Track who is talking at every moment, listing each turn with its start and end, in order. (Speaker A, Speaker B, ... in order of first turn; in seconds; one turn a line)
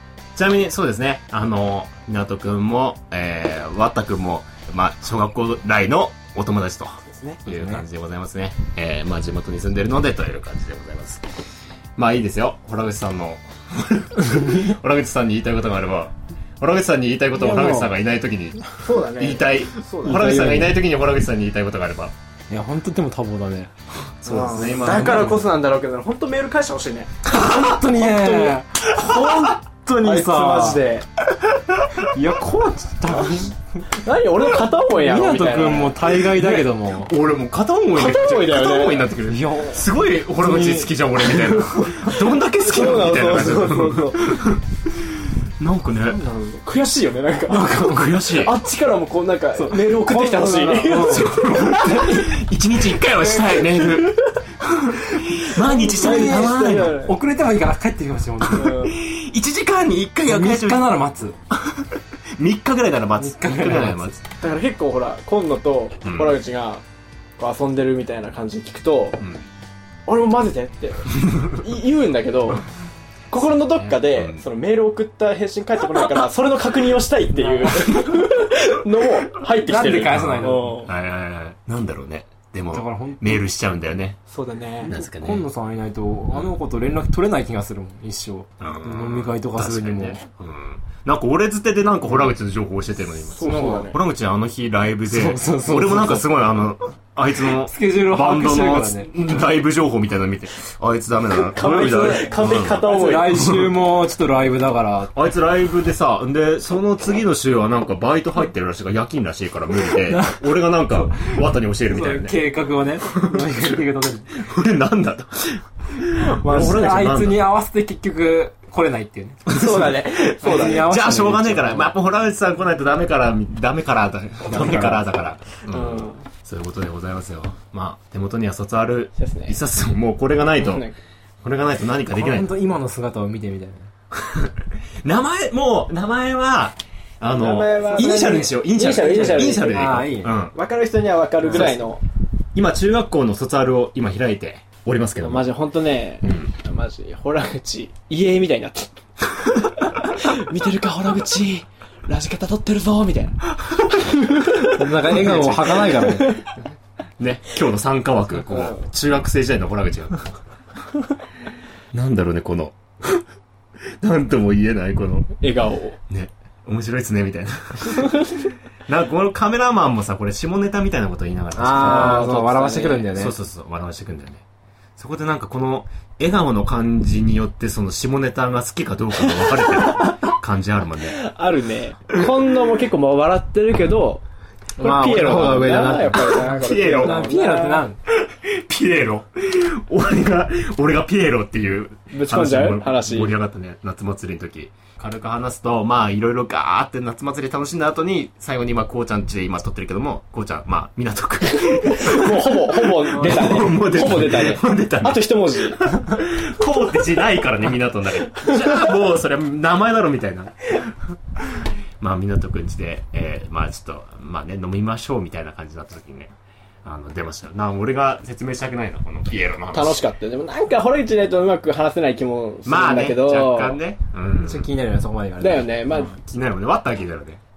Speaker A: 0.3-11.2
Speaker B: 7.5-7.8
Speaker A: 11.9-22.1
Speaker B: 17.4-17.9
Speaker C: 18.8-20.4
Speaker B: 20.0-20.8
Speaker B: 22.5-23.7
Speaker A: 24.2-25.4
Speaker C: 24.2-31.0
Speaker B: 24.4-25.4
Speaker A: 27.3-27.7
Speaker B: 27.3-28.9
Speaker A: 29.0-29.5
Speaker B: 29.4-30.9
Speaker B: 32.0-33.6
Speaker C: 33.9-36.0
Speaker B: 34.9-37.1
Speaker A: 36.2-44.6
Speaker C: 37.9-39.1
Speaker B: 39.2-42.1
Speaker C: 42.6-44.3
Speaker A: 45.6-46.2
Speaker C: 46.1-52.2
Speaker B: 47.5-48.1
Speaker A: 47.7-48.5
Speaker B: 49.5-52.2
Speaker A: 50.9-57.0
Speaker B: 53.4-53.8
Speaker B: 55.2-58.9
Speaker C: 55.6-57.2
Speaker A: 58.4-61.0
Speaker C: 58.5-59.0
Speaker B: 60.2-61.3
Speaker A: 61.5-64.2
Speaker B: 63.2-64.2
Speaker C: 64.4-66.8
Speaker A: 66.0-66.4
Speaker C: 67.4-69.2
Speaker C: 70.1-72.7
Speaker C: 73.3-80.9
Speaker A: 73.8-74.4
Speaker B: 77.3-78.1
Speaker B: 79.5-80.8
Speaker A: 80.0-84.2
Speaker B: 82.7-83.5
Speaker C: 84.3-84.9
Speaker A: 84.8-85.5
Speaker B: 84.9-90.2
Speaker A: 86.3-86.6
Speaker A: 88.6-103.7
Speaker C: 93.4-94.0
Speaker B: 93.4-93.9
Speaker B: 95.1-96.5
Speaker B: 97.6-99.1
Speaker C: 101.3-103.4
Speaker B: 102.8-105.1
Speaker A: 105.1-112.4
Speaker B: 110.1-110.4
Speaker B: 111.9-114.3
Speaker A: 113.1-113.8
Speaker A: 114.3-117.5
Speaker B: 116.1-119.5
Speaker A: 119.5-130.9
Speaker C: 119.5-120.9
Speaker B: 120.4-121.9
Speaker B: 124.5-125.0
Speaker C: 125.7-126.2
Speaker C: 129.2-129.6
Speaker C: 130.6-130.9
Speaker A: 131.4-132.5
Speaker B: 132.1-133.9
Speaker A: 134.1-140.5
Speaker C: 137.3-139.9
Speaker B: 139.0-140.4
Speaker C: 140.5-142.0
Speaker B: 141.4-141.8
Speaker A: 141.5-141.8
Speaker A: 142.5-145.5
Speaker C: 145.2-148.9
Speaker A: 146.2-146.5
Speaker C: 150.0-156.3
Speaker B: 154.6-156.4
Speaker A: 155.1-156.4
Speaker A: 157.2-160.2
Speaker A: 161.9-163.2
Speaker A: 164.0-165.3
Speaker C: 165.4-166.0
Speaker A: 166.1-172.3
Speaker B: 171.6-173.3
Speaker C: 171.7-173.1
Speaker A: 173.1-174.4
Speaker A: 175.0-181.2
Speaker C: 181.1-184.2
Speaker C: 184.8-187.8
Speaker B: 184.8-188.0
Speaker A: 186.4-187.2
Speaker A: 188.2-205.2
Speaker C: 192.1-193.3
Speaker C: 201.6-205.8
Speaker B: 203.1-203.7
Speaker A: 205.8-220.0
Speaker C: 219.7-223.8
Speaker A: 222.6-224.7
Speaker B: 224.4-225.7
Speaker C: 225.4-226.2
Speaker A: 225.9-227.4